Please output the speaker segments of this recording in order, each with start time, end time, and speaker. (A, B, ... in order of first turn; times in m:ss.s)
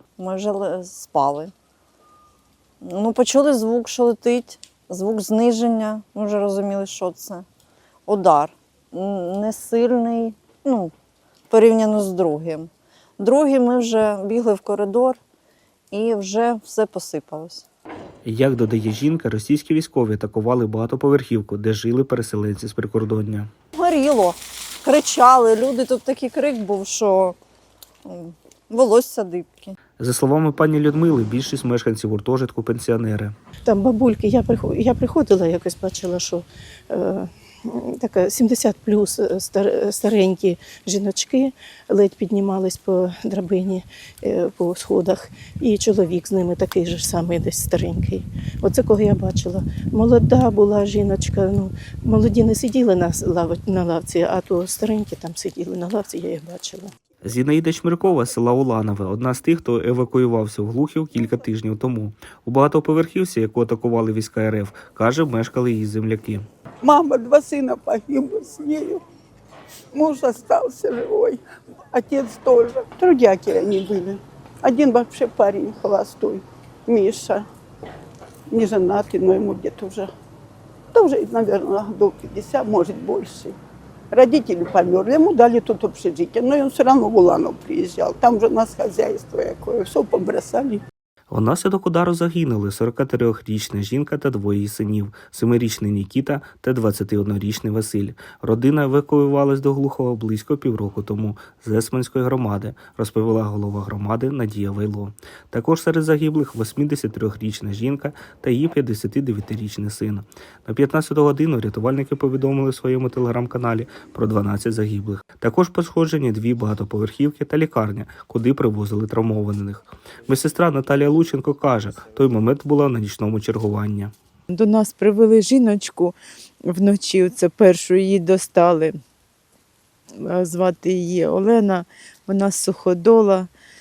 0:00.2-0:01.5 A
0:02.8-0:07.5 A
0:08.1-0:10.9 A
0:11.5-0:15.2 A
0:15.9-0:17.7 A
0:18.2-0:23.5 B
0:23.8-0:27.4 A
0:28.0-0:29.8 A
0:30.0-0:33.4 B
0:33.6-0:56.9 C
0:57.2-1:06.4 B
1:06.8-1:09.0 D
1:10.0-1:11.4 D
1:11.9-1:17.5 D
1:18.5-1:20.1 D
1:20.9-1:23.6 D
1:24.1-1:30.8 D
1:31.3-2:04.1 B
2:04.5-2:06.2 E
2:06.7-2:08.9 E
2:10.2-2:13.5 E